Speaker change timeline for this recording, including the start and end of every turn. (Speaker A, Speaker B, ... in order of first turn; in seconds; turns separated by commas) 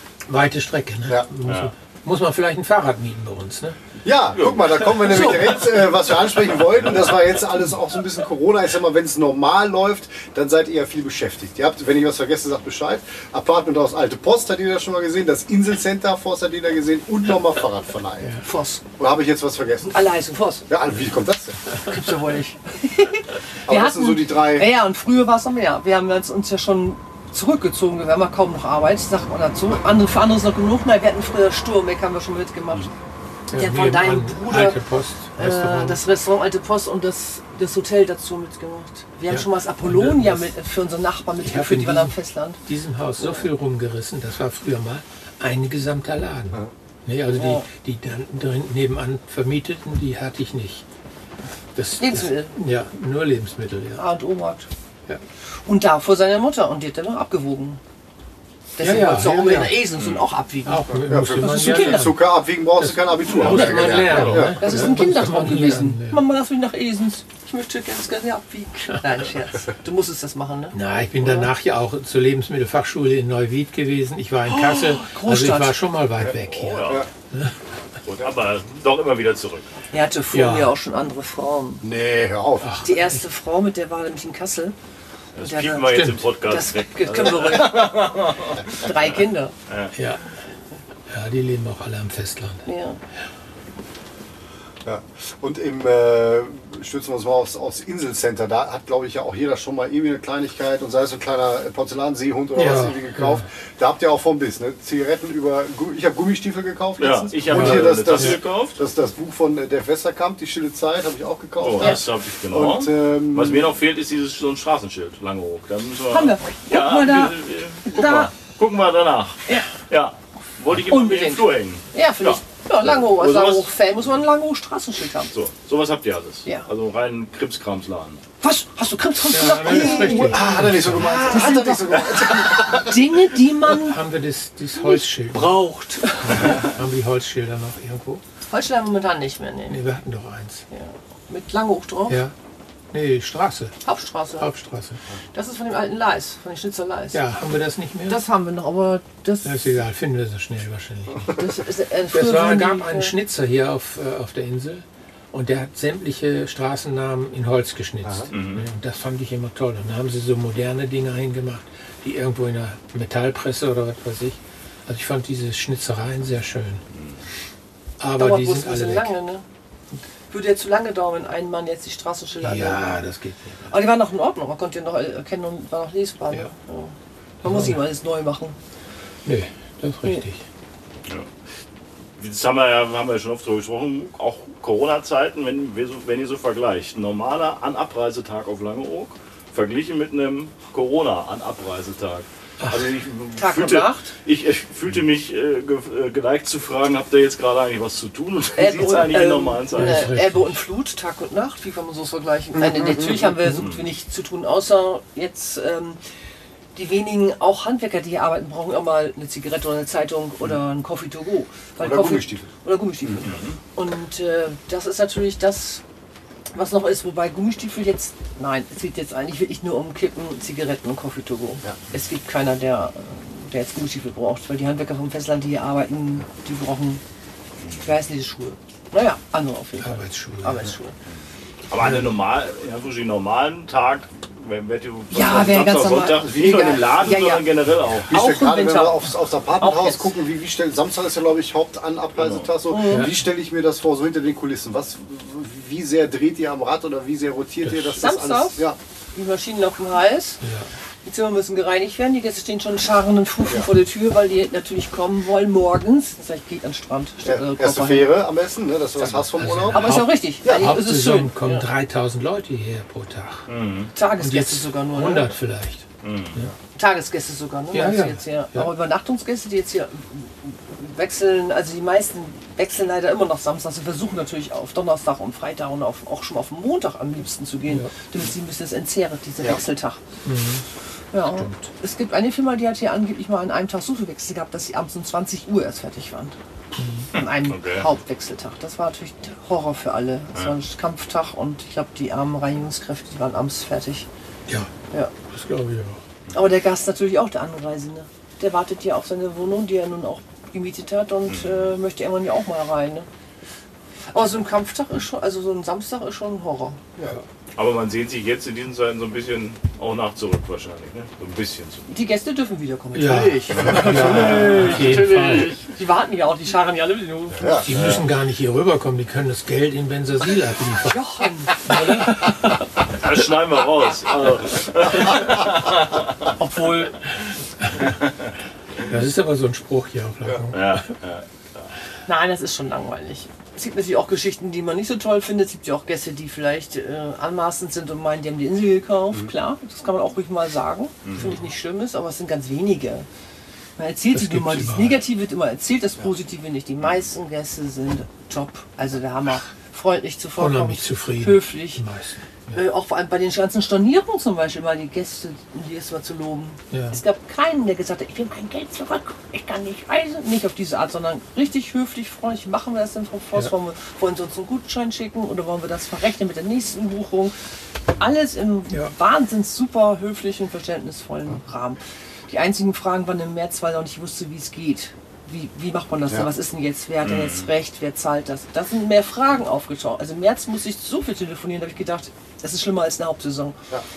Speaker A: 0.3-3.8, Speaker B: 1.4-1.7, Speaker C: 4.0-18.3, Speaker B: 4.3-5.5, Speaker D: 18.4-18.8, Speaker C: 19.0-20.0, Speaker D: 19.9-20.7, Speaker C: 20.7-21.6, Speaker D: 21.8-32.9, Speaker C: 23.7-24.8, Speaker A: 33.5-36.0, Speaker D: 33.5-34.8, Speaker D: 35.4-42.6, Speaker A: 39.3-40.5, Speaker A: 41.4-50.8, Speaker D: 43.2-43.4, Speaker D: 47.3-47.6, Speaker A: 51.8-54.0, Speaker D: 52.0-52.5, Speaker D: 54.0-54.7, Speaker D: 55.6-57.8, Speaker D: 58.8-62.0, Speaker A: 58.8-59.9, Speaker B: 60.0-60.3, Speaker A: 60.6-66.2, Speaker C: 61.0-64.7, Speaker B: 63.3-64.6, Speaker D: 63.5-71.5, Speaker A: 70.7-77.6, Speaker D: 74.5-75.8, Speaker B: 76.5-77.0, Speaker B: 78.0-79.7, Speaker D: 79.9-81.8, Speaker A: 80.3-80.7, Speaker C: 81.8-82.7, Speaker A: 82.6-83.2, Speaker D: 82.8-84.7, Speaker B: 85.3-89.1, Speaker D: 85.4-89.5, Speaker A: 85.8-86.3, Speaker A: 89.9-90.2, Speaker A: 91.1-92.7, Speaker D: 92.7-93.0, Speaker C: 94.8-113.7, Speaker A: 102.5-103.4, Speaker B: 107.0-108.8, Speaker A: 107.5-108.4, Speaker B: 111.6-123.7, Speaker D: 116.1-118.3, Speaker D: 120.7-125.3, Speaker B: 125.3-128.2, Speaker D: 128.4-134.0, Speaker A: 129.3-131.3, Speaker C: 129.7-133.2, Speaker A: 133.6-138.2, Speaker D: 134.8-136.7, Speaker D: 138.5-139.8, Speaker A: 139.7-140.6, Speaker D: 140.7-142.2, Speaker A: 142.1-142.3, Speaker A: 142.9-143.8, Speaker D: 143.8-144.5, Speaker A: 144.4-145.0, Speaker D: 145.3-147.2, Speaker A: 147.1-148.2, Speaker D: 148.1-149.8, Speaker A: 149.4-151.4, Speaker D: 151.3-153.1, Speaker A: 152.1-166.8, Speaker B: 158.3-158.7, Speaker B: 166.9-167.2, Speaker A: 168.0-169.1, Speaker D: 168.2-169.4, Speaker D: 170.3-172.9, Speaker A: 172.4-173.7, Speaker D: 173.7-178.6, Speaker A: 177.4-177.8, Speaker A: 179.2-180.4, Speaker B: 182.2-200.1, Speaker D: 193.4-194.1, Speaker D: 198.6-206.0, Speaker A: 199.7-200.6, Speaker C: 202.6-203.3, Speaker B: 203.4-203.9, Speaker D: 206.7-215.8, Speaker C: 211.8-212.5, Speaker C: 213.0-213.3, Speaker B: 213.2-213.6, Speaker D: 216.5-227.0, Speaker B: 227.6-227.9, Speaker D: 227.8-230.9, Speaker A: 229.8-230.7, Speaker B: 231.7-238.1, Speaker A: 231.8-232.2, Speaker D: 235.1-237.5, Speaker C: 236.2-237.2, Speaker C: 238.1-248.8, Speaker D: 238.1-240.1, Speaker B: 242.2-242.5, Speaker D: 242.7-243.1, Speaker A: 242.8-243.2, Speaker A: 247.6-247.9, Speaker D: 247.9-250.4, Speaker A: 250.4-250.7, Speaker D: 251.0-258.2, Speaker C: 253.4-253.7, Speaker C: 257.2-260.8, Speaker A: 259.3-263.5, Speaker D: 259.7-261.6, Speaker B: 263.5-263.9, Speaker D: 263.9-265.3, Speaker A: 264.2-266.5, Speaker B: 266.0-266.4, Speaker D: 266.7-280.0, Speaker A: 267.7-268.7, Speaker A: 277.7-277.9, Speaker A: 280.2-280.6, Speaker D: 281.1-286.4, Speaker A: 281.3-281.7, Speaker A: 286.8-287.1, Speaker D: 287.1-294.1, Speaker B: 287.1-287.9, Speaker A: 295.3-296.0, Speaker D: 296.3-303.1, Speaker B: 301.3-301.8, Speaker D: 304.1-307.1, Speaker B: 307.6-311.8, Speaker D: 311.9-317.6, Speaker A: 312.9-315.5, Speaker C: 313.6-314.5, Speaker B: 313.8-315.6, Speaker C: 317.4-317.9, Speaker A: 317.5-321.0, Speaker B: 317.7-318.0, Speaker D: 320.9-322.1, Speaker A: 321.6-322.6, Speaker B: 322.9-326.1, Speaker D: 326.4-326.9, Speaker A: 327.6-327.9, Speaker A: 328.8-330.9, Speaker B: 330.5-331.7, Speaker D: 332.1-343.1, Speaker B: 341.0-341.3, Speaker D: 343.8-351.8, Speaker A: 344.1-345.0, Speaker A: 350.4-352.6, Speaker D: 352.5-367.3, Speaker A: 356.7-357.0, Speaker D: 368.0-383.6, Speaker B: 377.0-377.5